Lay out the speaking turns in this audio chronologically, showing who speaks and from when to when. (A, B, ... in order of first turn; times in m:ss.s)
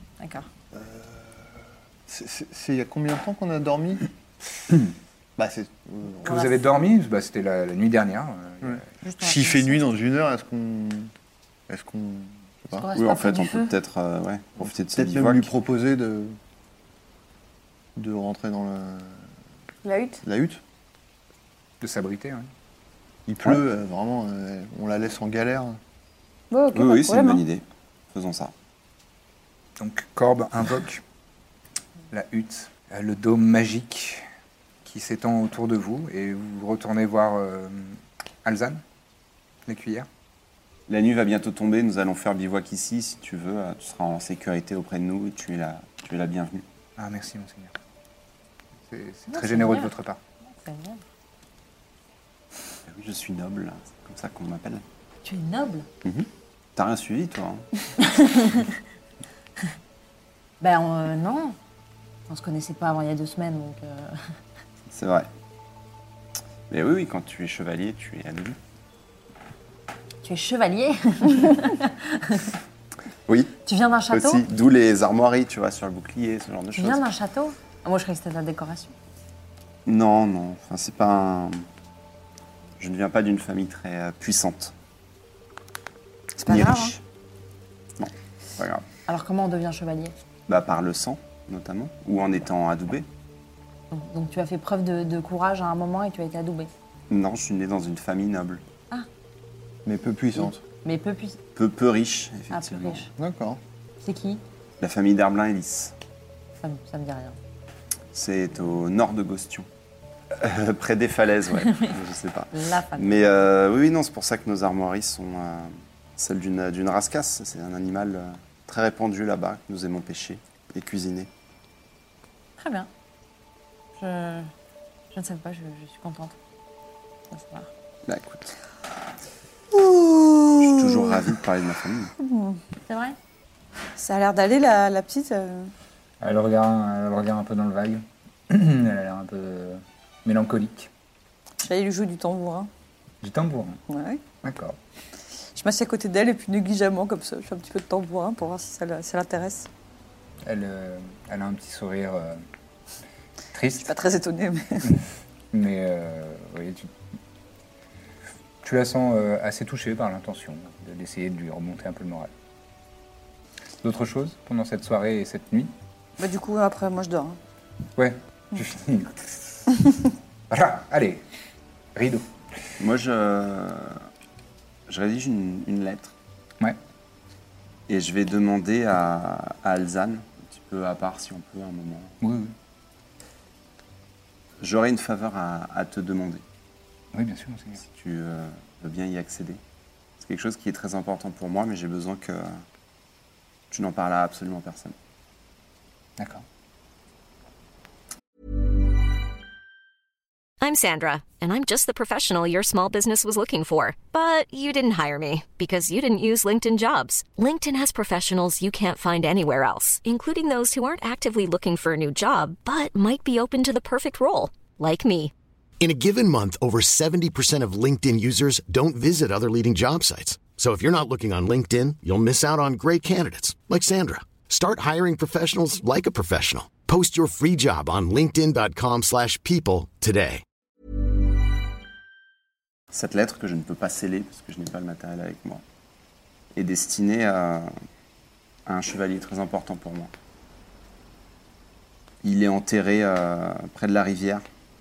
0:00.2-0:00.5 A
0:00.7-0:04.1 B
0:05.4-0:06.4 B
0:06.2-0:06.5 A
0:06.2-0:08.8 C
0:08.6-0:11.1 B
0:09.0-0:09.9 A
0:11.7-0:12.9 B
0:12.7-0:13.7 A
0:12.9-0:15.5 D
0:14.6-0:16.4 B
0:18.0-0:19.2 B
0:19.8-0:20.2 E
0:20.2-0:20.6 B
0:21.8-0:22.5 C
0:23.3-0:25.8 B
0:26.5-0:27.4 E
0:26.7-0:28.5 D
0:29.8-0:31.0 C
0:32.1-0:34.2 C
0:34.8-0:38.8 C
0:39.6-0:40.1 C
0:40.9-0:46.6 D
0:47.0-0:47.7 C
0:48.9-0:50.2 C
0:49.3-0:49.9 A
0:50.4-0:51.0 A
0:52.8-0:54.8 D
0:55.2-0:55.9 A
0:56.0-0:57.7 D
0:58.0-0:58.7 A
1:00.6-1:01.6 A
1:02.3-1:04.2 A
1:04.9-1:05.3 D
1:06.7-1:08.6 D
1:10.2-1:12.6 A
1:13.3-1:13.5 D
1:13.6-1:14.4 A
1:14.1-1:17.0 D
1:16.7-1:18.9 A
1:19.8-1:21.6 D
1:22.8-1:24.7 D
1:26.4-1:26.9 E
1:26.4-1:27.0 D
1:28.0-1:28.8 D
1:29.1-1:30.1 A
1:30.5-1:33.0 D
1:33.9-1:36.7 A
1:37.1-1:38.6 D
1:39.8-1:40.6 B
1:40.8-1:41.4 A
1:41.5-1:43.0 D
1:42.5-1:43.1 A
1:43.2-1:43.6 B
1:44.0-1:44.4 A
1:44.8-1:45.9 D
1:46.6-1:47.4 A
1:48.1-1:49.7 D
1:50.3-2:01.3 D
1:51.6-1:51.9 A
1:52.5-1:53.3 A
2:02.6-2:02.9 A
2:04.0-2:04.5 A
2:05.1-2:06.3 A
2:07.3-2:07.7 A
2:08.0-2:08.5 D
2:09.7-2:11.1 E
2:10.6-2:12.1 D
2:12.2-2:12.6 E
2:12.9-2:13.2 A
2:14.0-2:15.7 E
2:16.2-2:20.9 C
2:21.6-2:22.7 E
2:23.2-2:23.8 C
2:23.9-2:24.2 E
2:24.4-2:24.8 C
2:25.5-2:29.7 E
2:30.4-2:32.4 C
2:33.5-2:33.9 C
2:33.8-2:34.9 E
2:35.5-2:36.9 C
2:38.6-2:42.3 C
2:43.8-2:45.7 C
2:46.2-2:47.4 E
2:48.0-2:49.4 C
2:50.5-2:51.2 C
2:51.9-2:52.2 C
2:52.8-2:54.1 D
2:54.9-2:56.1 D
2:57.9-3:02.2 D
3:02.2-3:02.5 C
3:04.6-3:06.4 D
3:07.1-3:07.8 C
3:07.8-3:09.6 D
3:10.2-3:12.6 D
3:13.7-3:14.9 D
3:16.2-3:16.4 C
3:20.6-3:35.3 F
3:35.8-3:50.4 G
3:52.9-3:55.6 D
3:56.5-3:57.7 D
3:58.6-4:00.1 D
4:02.2-4:04.4 D